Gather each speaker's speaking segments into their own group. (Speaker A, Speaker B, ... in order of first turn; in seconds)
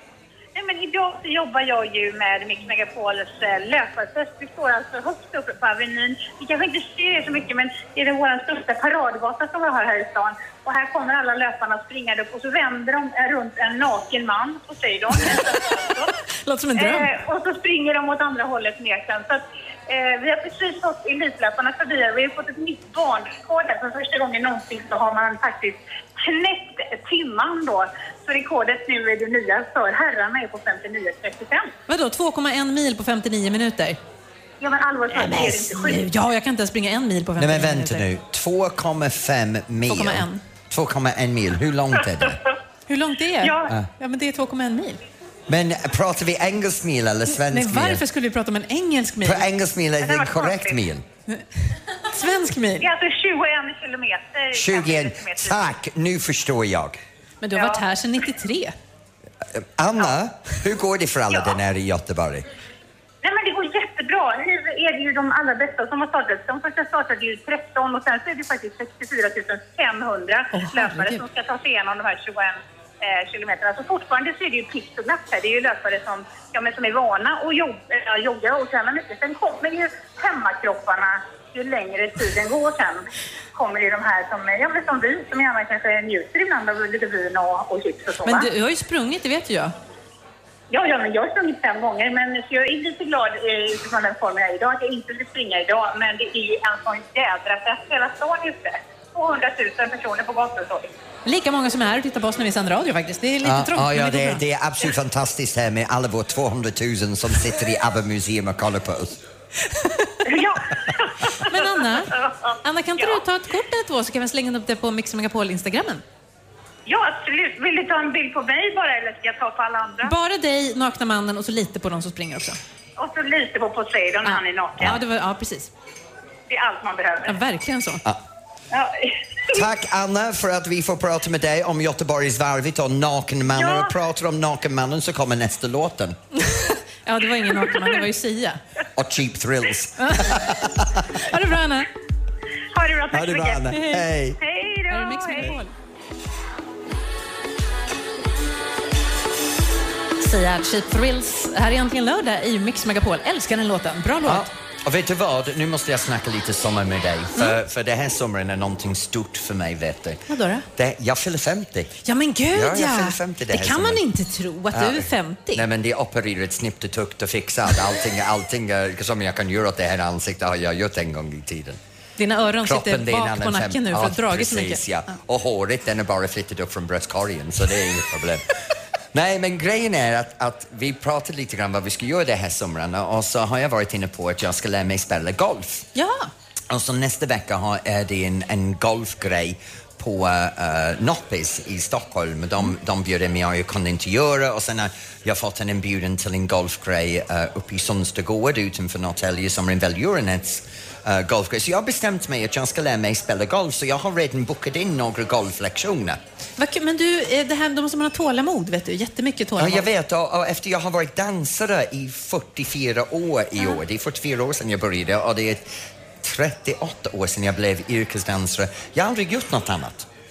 Speaker A: 0.5-16.1, 16.8-31.7, 34.6-36.0, 43.4-43.7, 50.0-50.8, 52.8-55.7, 57.5-57.8, 63.2-83.0, 83.5-88.5, 90.7-100.9, 110.2-113.2, 116.8-120.1, 123.0-125.0, 126.5-127.3, 128.7-129.6, 133.5-133.9, 142.7-143.8, 144.4-145.5
Speaker B: 16.4-17.1, 31.9-34.0, 35.1-38.0, 39.9-40.4, 42.9-45.0, 47.3-49.5, 52.1-52.9, 57.4-58.7, 70.5-71.2, 88.2-89.7, 101.2-104.4, 109.7-110.1, 111.4-116.0, 120.0-122.6, 124.2-125.7, 127.2-128.0, 136.3-138.6, 140.0-140.4, 141.1-141.9, 143.7-144.0, 144.9-145.7, 150.2-154.5, 160.3-160.7, 162.0-165.6, 172.2-174.8, 185.9-186.3, 206.6-209.8
Speaker C: 37.4-42.4, 45.5-48.0, 49.2-51.0, 54.5-57.0, 59.5-62.5, 103.4-109.2, 129.5-136.2, 138.9-141.1, 143.1-144.4, 154.2-160.2, 160.8-161.9, 162.5-164.0, 164.7-171.8, 172.6-178.5, 179.1-185.9, 186.7-206.2, 209.6-220.1